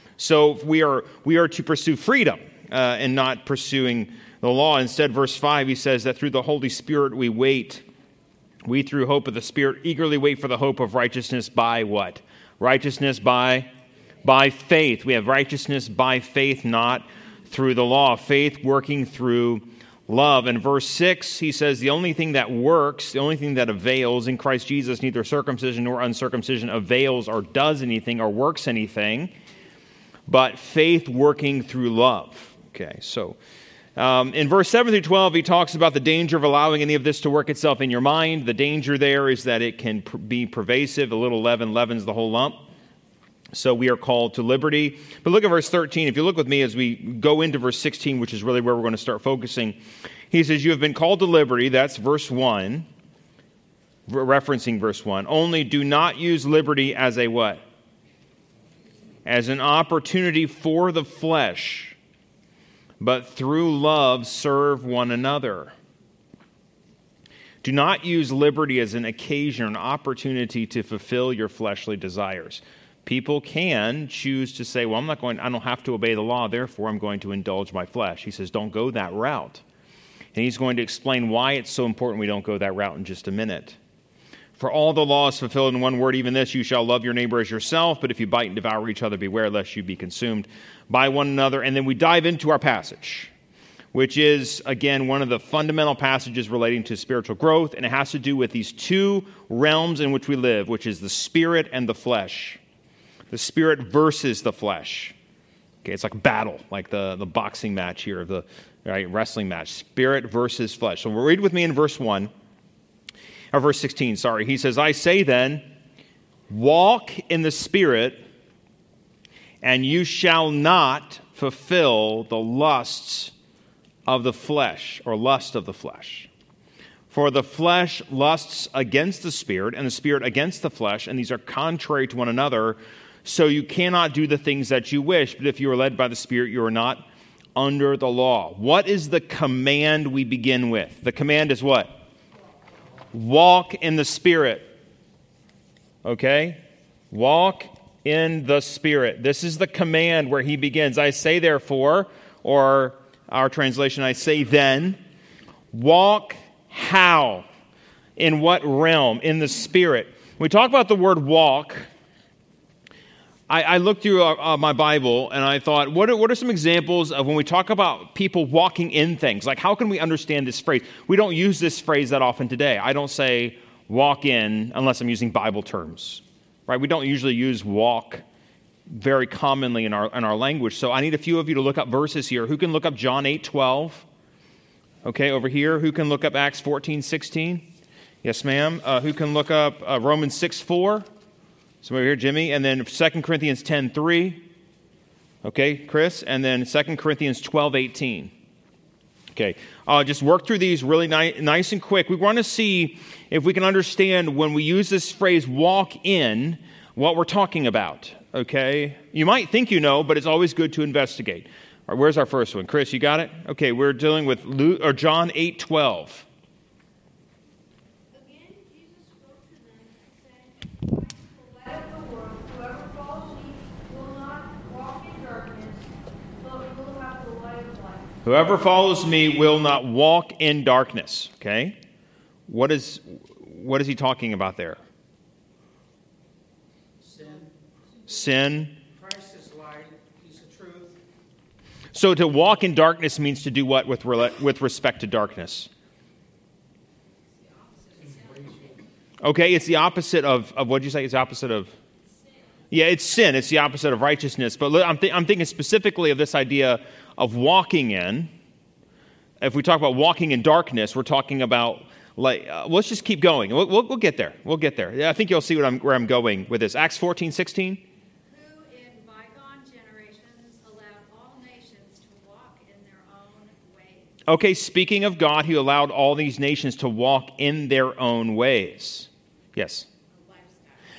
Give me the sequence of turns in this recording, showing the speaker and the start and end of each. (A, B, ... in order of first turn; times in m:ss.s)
0:00.2-0:07.8 A
0:08.6-0:13.7 A
0:14.2-0:29.3 A
0:30.3-0:33.4 A
0:34.0-0:42.6 A
0:43.5-0:49.8 A
0:50.3-0:52.9 A
0:54.1-0:57.6 A
0:59.3-1:02.0 A
1:03.0-1:05.7 A
1:07.6-1:19.6 A
1:20.3-1:23.8 A
1:24.6-1:33.3 A
1:33.9-1:42.6 A
1:43.3-1:45.2 A
1:45.8-1:52.3 A
1:53.5-1:55.7 A
1:56.5-1:58.2 A
1:59.6-2:03.3 A
2:04.1-2:06.3 A
2:07.1-2:22.0 A
2:23.1-2:24.7 A
2:26.0-2:35.0 A
2:35.7-2:37.5 A
2:38.2-2:41.9 A
2:43.5-2:58.2 A
2:58.9-3:04.1 A
3:05.0-3:07.7 A
3:08.2-3:11.1 A
3:11.8-3:14.5 A
3:15.4-3:18.3 A
3:19.3-3:36.3 A
3:38.1-3:48.2 B
3:48.2-3:51.8 A
3:52.5-3:54.8 A
3:57.0-3:57.5 C
3:58.1-3:58.8 A
3:58.9-4:01.0 C
4:01.9-4:05.7 A
4:07.3-4:08.7 B
4:09.2-4:11.7 A
4:12.0-4:12.4 B
4:12.7-4:18.3 A
4:19.4-4:27.8 A
4:28.3-4:34.1 B
4:34.3-4:39.9 A
4:40.1-4:40.8 B